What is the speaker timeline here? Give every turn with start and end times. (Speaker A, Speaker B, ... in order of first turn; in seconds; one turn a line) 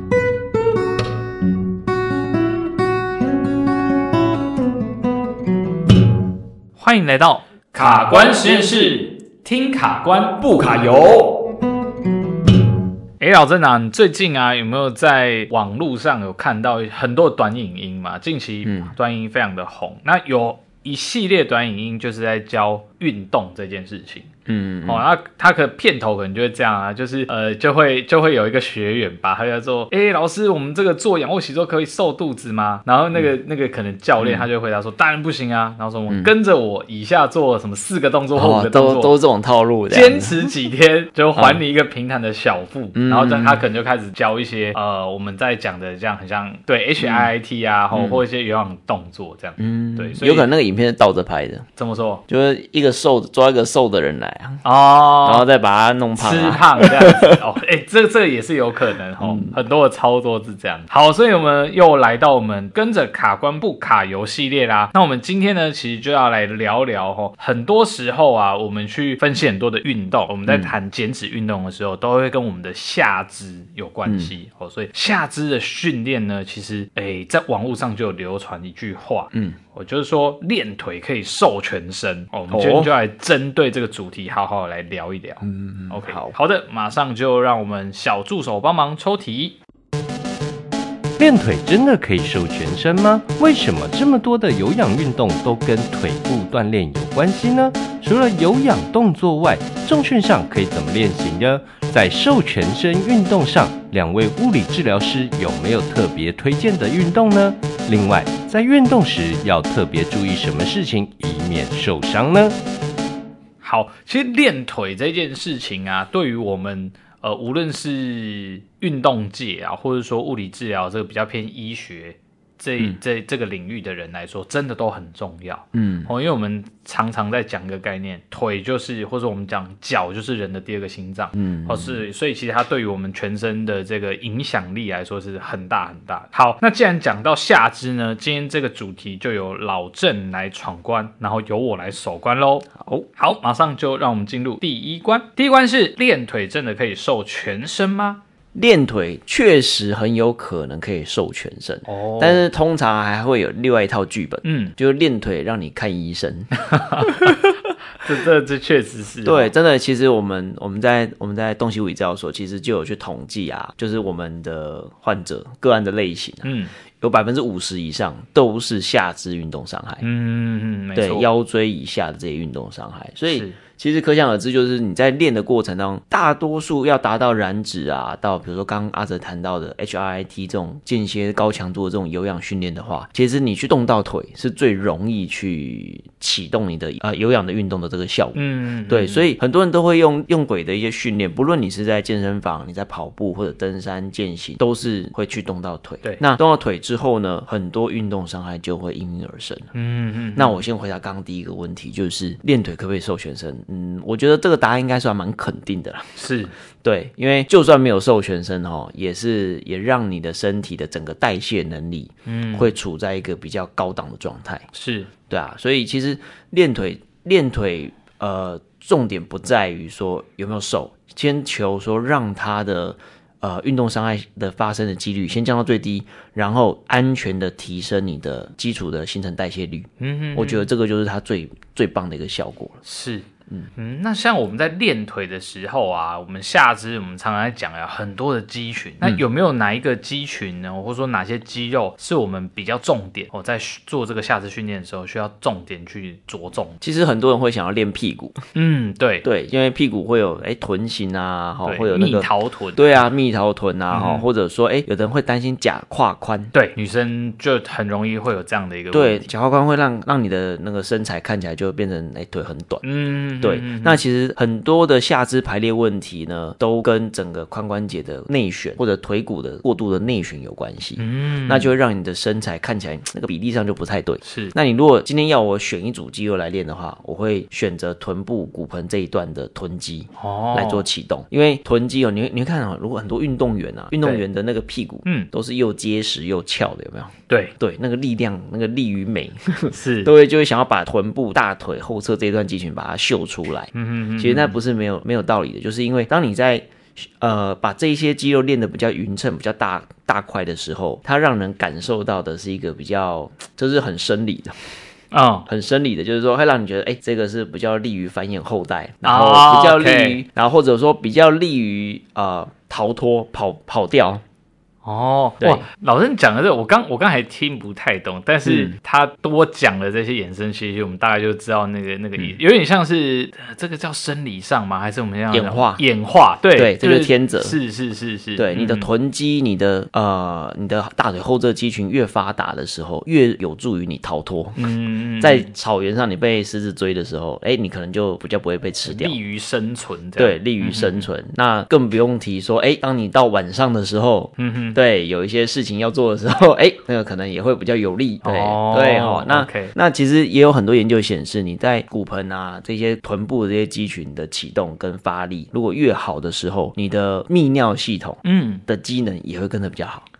Speaker A: 6.8-11.4
Speaker A: 13.2-24.3
Speaker B: 18.6-18.9
Speaker B: 24.5-25.0
Speaker A: 24.9-39.1
Speaker B: 34.2-34.5
Speaker B: 38.4-40.4
Speaker A: 39.9-50.5
Speaker B: 41.4-41.6
Speaker B: 42.9-43.6
Speaker B: 47.0-47.3
Speaker B: 47.9-48.2
Speaker B: 49.6-51.7
Speaker A: 51.8-52.2
Speaker B: 52.3-54.6
Speaker A: 54.6-55.5
Speaker B: 55.2-57.4
Speaker A: 56.2-89.6
Speaker B: 59.2-59.6
Speaker B: 70.5-70.7
Speaker B: 74.1-74.3
Speaker B: 82.5-82.9
Speaker B: 85.4-86.3
Speaker C: 91.2-112.6
Speaker A: 113.6-148.2
Speaker B: 125.7-126.1
Speaker B: 131.3-132.0
Speaker B: 142.8-143.1
Speaker B: 148.6-157.6
Speaker A: 151.9-152.5
Speaker A: 154.4-154.7
Speaker A: 156.6-159.5
Speaker B: 159.2-170.0
Speaker A: 166.4-166.7
Speaker A: 170.0-171.3
Speaker B: 170.9-199.7
Speaker A: 173.3-173.6
Speaker A: 188.3-189.3
Speaker A: 199.7-200.6
Speaker B: 200.3-206.2
Speaker A: 206.2-206.5
Speaker B: 206.8-214.7
Speaker A: 212.3-212.7
Speaker A: 214.7-215.1
Speaker B: 215.3-232.8
Speaker A: 230.0-230.7
Speaker A: 232.8-246.8
Speaker B: 246.8-248.4
Speaker A: 248.5-249.3
Speaker B: 249.2-256.5
Speaker A: 251.7-252.8
Speaker A: 253.9-254.2
Speaker A: 256.5-259.3
Speaker B: 258.9-262.8
Speaker A: 262.8-264.0
Speaker B: 263.4-304.7
Speaker A: 271.0-271.7
Speaker A: 274.2-274.5
Speaker A: 280.2-280.9
Speaker A: 285.1-285.3
Speaker A: 287.3-287.6
Speaker A: 289.7-290.1
Speaker A: 293.7-294.6
Speaker A: 305.1-305.5
Speaker B: 305.5-314.2
Speaker A: 309.0-310.2
Speaker A: 314.9-328.9
Speaker B: 315.4-315.6
Speaker B: 318.4-318.8
Speaker B: 325.3-325.8
Speaker B: 326.5-327.6
Speaker B: 328.4-339.2
Speaker A: 334.6-335.5
Speaker A: 338.9-341.0
Speaker B: 340.2-360.1
Speaker A: 344.4-344.8
Speaker A: 348.2-349.7
Speaker A: 358.2-358.6